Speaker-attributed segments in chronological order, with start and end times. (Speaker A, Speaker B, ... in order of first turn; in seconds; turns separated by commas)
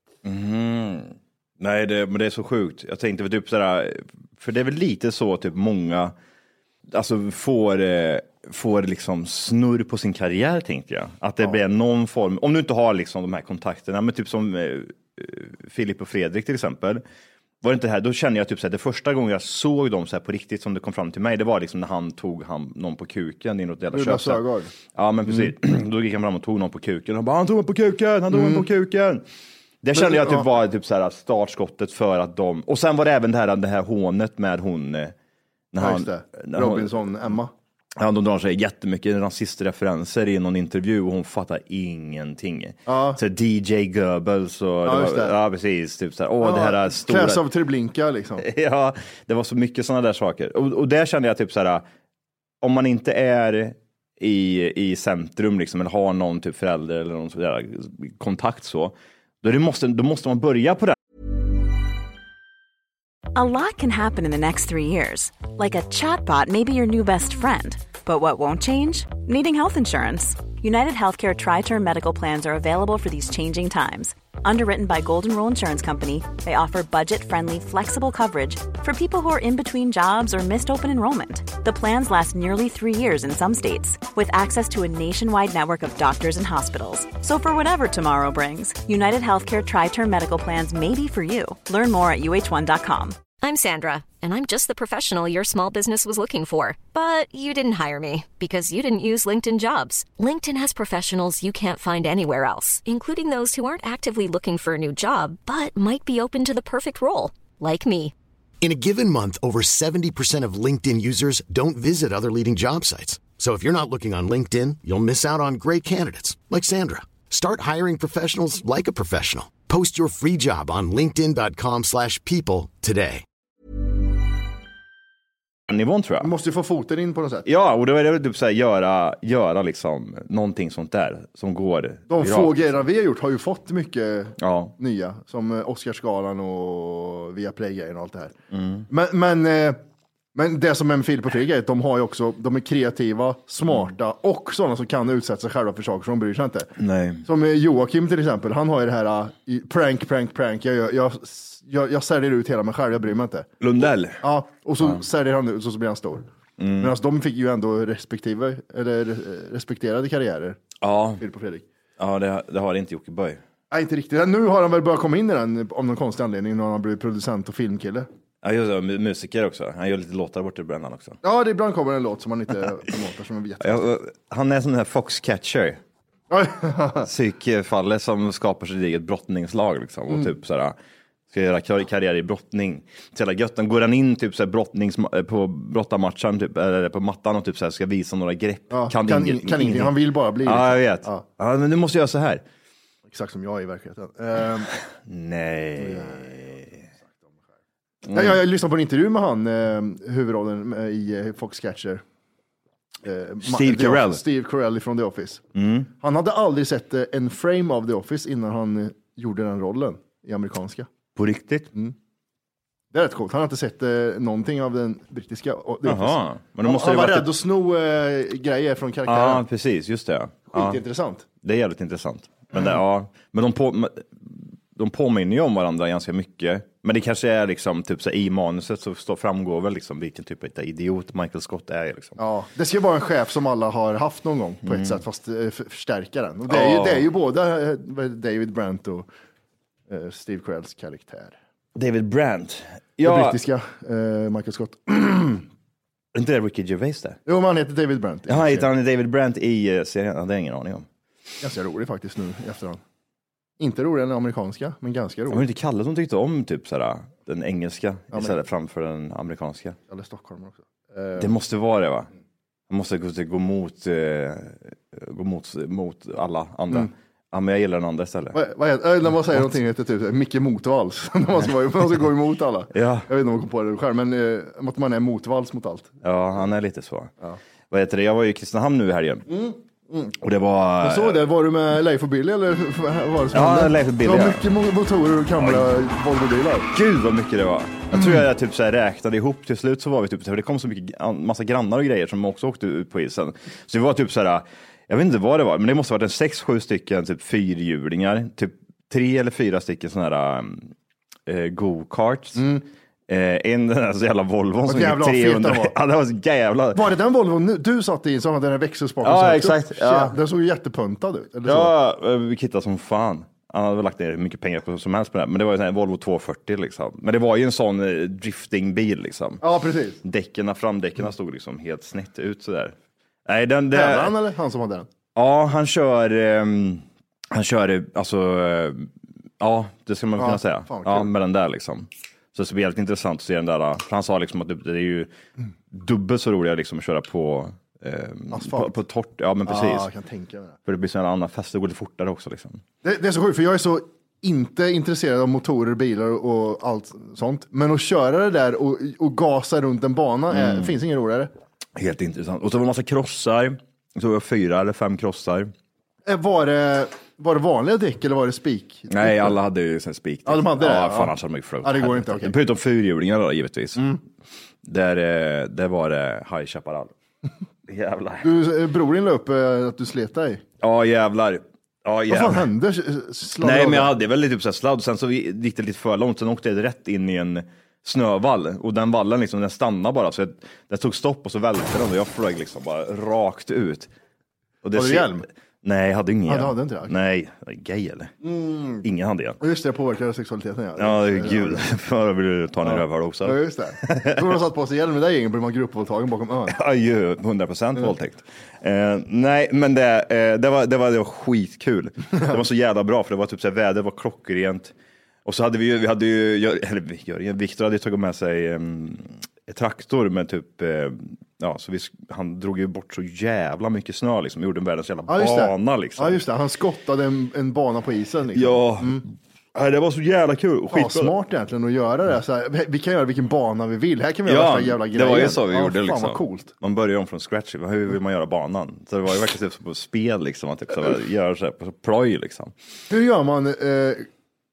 Speaker A: 0.2-6.1, Speaker A: 6.9-17.0, Speaker A: 17.6-24.4, Speaker B: 23.9-24.7, Speaker A: 24.9-29.2, Speaker B: 28.3-28.6, Speaker A: 29.8-35.1, Speaker B: 29.9-30.4, Speaker A: 35.7-37.0, Speaker B: 35.8-37.5, Speaker A: 38.0-47.4, Speaker B: 42.9-43.2, Speaker B: 44.9-45.4, Speaker B: 46.4-48.5, Speaker A: 48.4-51.8, Speaker A: 52.6-61.0, Speaker C: 63.4-93.2, Speaker D: 93.4-108.1, Speaker E: 108.6-123.2, Speaker A: 125.7-126.3, Speaker B: 126.2-127.5, Speaker A: 127.5-132.8, Speaker B: 132.1-138.3, Speaker A: 134.4-134.7, Speaker A: 138.5-138.9, Speaker B: 138.9-139.8, Speaker B: 140.3-146.7, Speaker A: 146.8-147.2, Speaker B: 147.2-153.5, Speaker A: 153.6-154.2, Speaker B: 154.2-156.3, Speaker A: 156.6-156.9, Speaker B: 156.8-160.6, Speaker A: 160.8-161.2, Speaker B: 161.2-161.6, Speaker A: 162.0-163.4, Speaker B: 163.7-168.1, Speaker A: 168.4-171.2, Speaker B: 171.2-173.9, Speaker A: 173.6-175.8, Speaker B: 176.3-177.1, Speaker A: 177.0-180.8, Speaker A: 181.3-192.4, Speaker B: 188.7-191.2, Speaker B: 193.1-194.7, Speaker A: 195.1-196.7, Speaker B: 195.8-196.4, Speaker A: 198.1-198.4, Speaker B: 198.1-202.0, Speaker B: 203.0-205.4, Speaker A: 203.4-204.2, Speaker A: 205.5-205.9, Speaker B: 206.0-210.9, Speaker A: 211.2-211.7, Speaker B: 212.9-219.4, Speaker A: 215.8-217.3, Speaker A: 219.1-220.8, Speaker B: 220.5-221.2, Speaker A: 221.4-232.2, Speaker B: 232.2-239.1, Speaker A: 234.7-235.0, Speaker A: 236.5-237.1, Speaker B: 239.9-241.3, Speaker A: 241.8-243.4, Speaker B: 243.0-245.5, Speaker A: 246.1-247.2, Speaker B: 247.2-248.7, Speaker A: 248.3-250.9, Speaker B: 251.4-252.8, Speaker B: 253.6-255.4, Speaker A: 255.3-259.8, Speaker B: 259.9-261.3, Speaker A: 261.2-262.1, Speaker A: 262.7-268.4, Speaker B: 268.3-275.9, Speaker A: 272.7-273.1, Speaker A: 276.0-277.1, Speaker A: 277.7-279.2, Speaker B: 279.3-280.1, Speaker A: 280.2-281.2, Speaker B: 280.8-286.7, Speaker A: 283.3-284.4, Speaker A: 285.4-285.7, Speaker A: 286.7-300.7, Speaker A: 301.2-302.5, Speaker B: 302.4-302.6, Speaker A: 303.1-306.9, Speaker B: 304.7-305.7, Speaker B: 306.7-311.7, Speaker A: 309.0-310.2, Speaker A: 311.5-319.4, Speaker B: 319.4-320.0, Speaker A: 320.0-322.8, Speaker A: 323.2-324.1, Speaker B: 323.7-324.9, Speaker A: 325.1-335.1, Speaker B: 330.2-331.1, Speaker A: 335.7-339.9, Speaker B: 338.3-338.8, Speaker B: 339.5-340.6, Speaker A: 340.7-342.6, Speaker B: 342.8-351.3, Speaker A: 350.3-350.7, Speaker A: 351.8-355.5, Speaker B: 356.1-359.4, Speaker A: 358.9-363.8, Speaker B: 360.2-362.3, Speaker A: 364.6-366.9, Speaker A: 367.7-368.3, Speaker B: 368.2-370.4, Speaker A: 370.6-372.5, Speaker B: 372.1-373.9, Speaker A: 373.4-383.9, Speaker A: 384.6-388.1, Speaker B: 384.7-385.2, Speaker B: 386.3-386.9, Speaker B: 388.2-388.8, Speaker A: 388.8-389.4, Speaker B: 389.4-391.7, Speaker A: 390.8-394.3, Speaker B: 392.6-396.5, Speaker A: 396.5-404.7, Speaker A: 405.2-416.2, Speaker B: 415.1-419.0, Speaker A: 418.3-421.1, Speaker B: 420.7-426.5, Speaker A: 424.2-432.5, Speaker B: 432.9-434.1